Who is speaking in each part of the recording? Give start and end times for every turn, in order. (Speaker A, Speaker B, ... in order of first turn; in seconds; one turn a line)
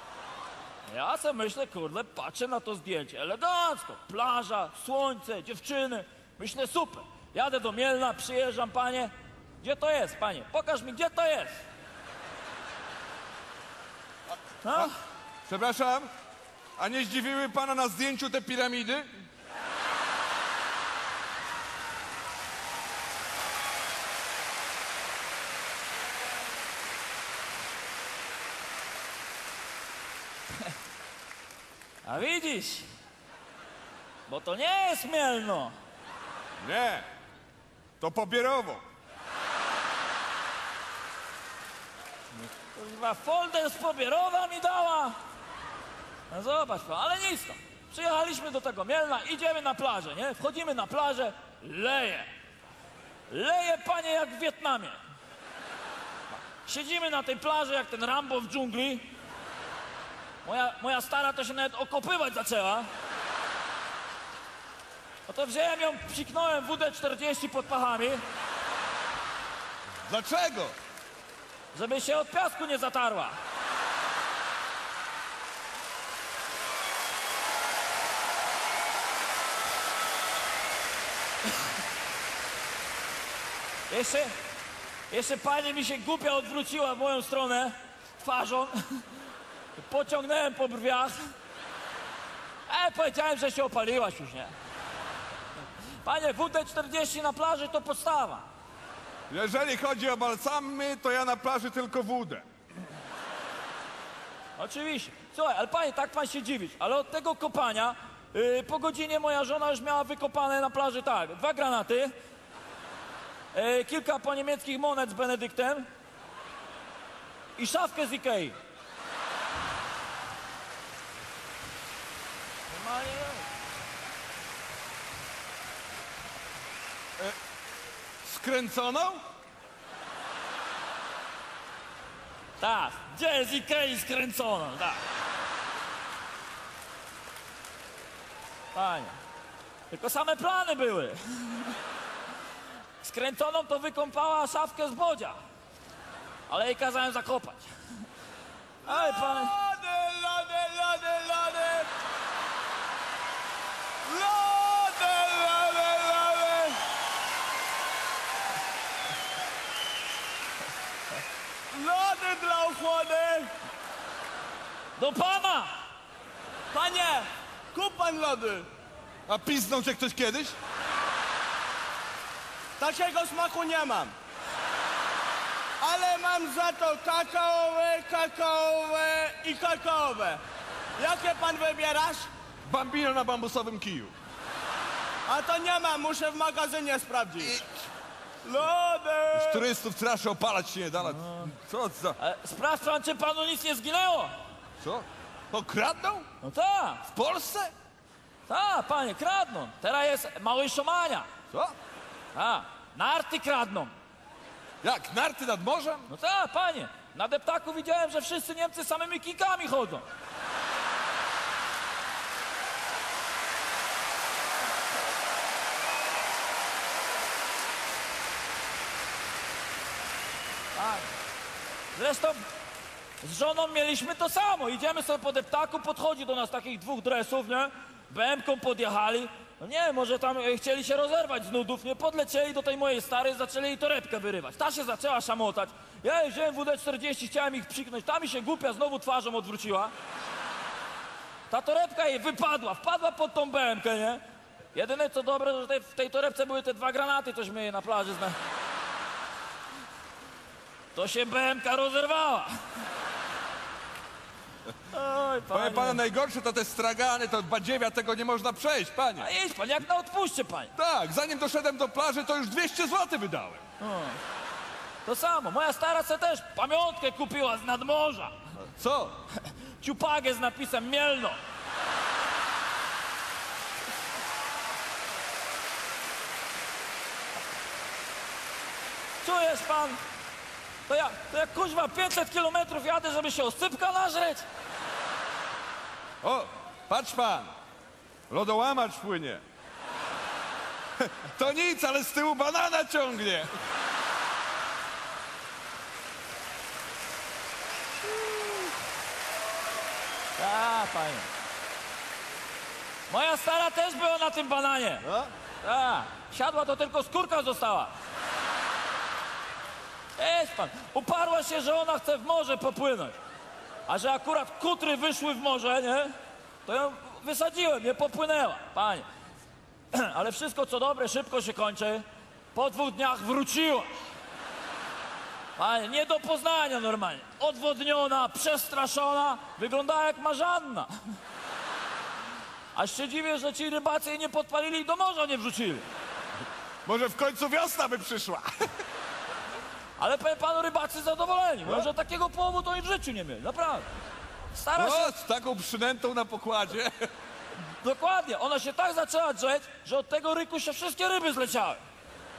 Speaker A: 0.9-11.6
Speaker A: 14.6-14.9
Speaker B: 15.5-16.1
Speaker B: 16.8-19.1
Speaker A: 32.0-32.9
Speaker A: 34.3-35.8
Speaker B: 36.6-37.1
Speaker B: 38.0-38.8
Speaker A: 42.4-45.2
Speaker A: 46.3-52.3
Speaker A: 53.3-55.0
Speaker A: 56.5-59.1
Speaker A: 60.4-62.9
Speaker A: 65.3-68.2
Speaker B: 70.1-70.8
Speaker A: 71.7-73.3
Speaker A: 83.9-84.3
Speaker A: 85.1-89.1
Speaker A: 89.8-91.3
Speaker A: 92.7-94.5
Speaker A: 96.0-98.5
Speaker B: 99.3-102.5
Speaker A: 104.6-112.1
Speaker A: 113.5-115.9
Speaker A: 117.6-118.6
Speaker A: 122.7-123.5
Speaker B: 128.2-129.2
Speaker A: 132.6-135.0
Speaker A: 138.7-139.2
Speaker A: 139.9-141.8
Speaker A: 143.0-145.4
Speaker A: 146.5-147.7
Speaker C: 148.8-151.9
Speaker A: 148.8-149.5
Speaker C: 154.1-156.8
Speaker C: 161.7-163.5
Speaker A: 165.0-165.8
Speaker C: 166.7-168.7
Speaker B: 169.3-170.6
Speaker C: 172.8-174.1
Speaker C: 175.8-180.4
Speaker C: 181.0-182.3
Speaker B: 182.6-184.1
Speaker C: 185.3-187.6
Speaker B: 187.4-187.7
Speaker C: 188.4-189.7
Speaker B: 189.3-192.2
Speaker A: 191.0-191.6
Speaker A: 192.2-194.3
Speaker B: 194.8-196.3
Speaker A: 196.4-197.0
Speaker B: 197.1-197.7
Speaker A: 198.5-201.3
Speaker A: 202.3-203.9
Speaker B: 204.8-206.1
Speaker A: 206.1-210.1
Speaker A: 220.8-221.1
Speaker A: 221.9-222.4
Speaker A: 223.2-239.9
Speaker A: 241.5-244.2
Speaker A: 244.7-248.4
Speaker A: 250.9-252.5
Speaker A: 254.9-256.0
Speaker B: 255.5-259.3
Speaker A: 259.2-260.7
Speaker B: 260.8-263.6
Speaker A: 263.8-264.2
Speaker A: 265.1-268.4
Speaker B: 268.6-269.2
Speaker A: 269.4-271.4
Speaker A: 279.2-280.0
Speaker A: 280.9-284.5
Speaker B: 286.2-287.5
Speaker B: 288.3-289.4
Speaker B: 291.0-293.5
Speaker A: 300.4-301.3
Speaker A: 303.1-305.1
Speaker B: 305.1-305.3
Speaker A: 305.6-307.9
Speaker A: 310.2-313.2
Speaker A: 313.9-316.1
Speaker A: 316.6-319.1
Speaker A: 319.9-323.9
Speaker A: 325.6-330.9
Speaker A: 332.8-335.9
Speaker B: 336.9-338.5
Speaker A: 340.0-343.9
Speaker A: 344.5-345.1
Speaker B: 344.8-347.1
Speaker A: 347.8-351.8